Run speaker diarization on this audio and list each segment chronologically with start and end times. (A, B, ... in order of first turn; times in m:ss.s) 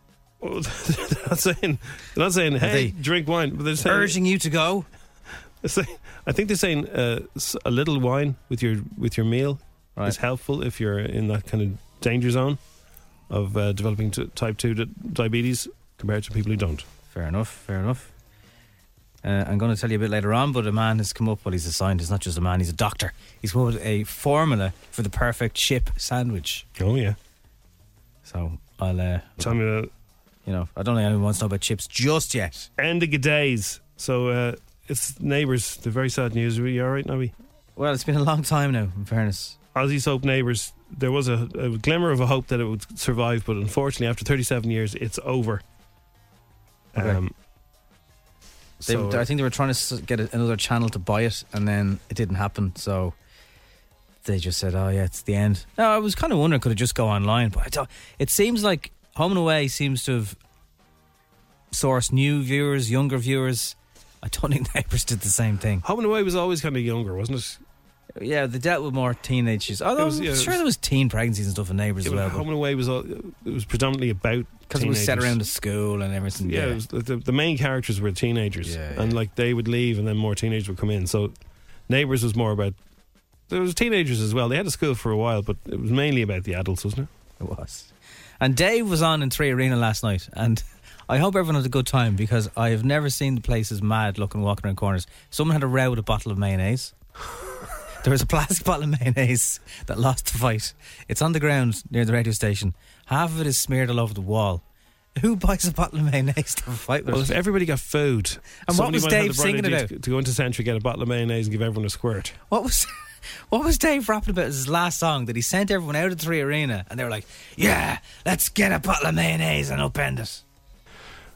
0:00.4-0:04.2 A
0:02.6-0:03.0 B
0:03.8-0:04.9 B
0:05.6-0:12.6 A
0:13.3-0:16.8 A
0:17.1-0:18.1 B
0:19.2-0:26.6 B
0:26.8-0:27.2 A
0:28.2-0:29.6 B
0:29.4-0:29.9 A
0:30.4-0:32.7 B
0:32.8-0:37.3 A
0:37.8-0:39.6 B
0:39.7-0:45.6 A
0:46.9-0:47.3 A
0:47.0-0:47.2 B
0:48.8-0:49.3 A
0:48.8-0:53.1 B
0:54.2-1:00.4 B
1:01.7-1:05.8 B
1:05.8-1:07.6 A
1:08.2-1:12.4 B
1:10.0-1:10.6 A
1:12.0-1:15.4 A
1:14.7-1:16.8 B
1:16.4-1:21.3 A
1:18.6-1:19.2 B
1:21.9-1:22.8 A
1:23.5-1:27.1 A
1:27.4-1:36.9 B
1:38.0-1:44.6 B
1:45.2-1:47.4 B
1:47.1-1:52.4 A
1:48.6-1:49.9 B
1:52.5-1:52.9 B
1:53.5-2:00.4 B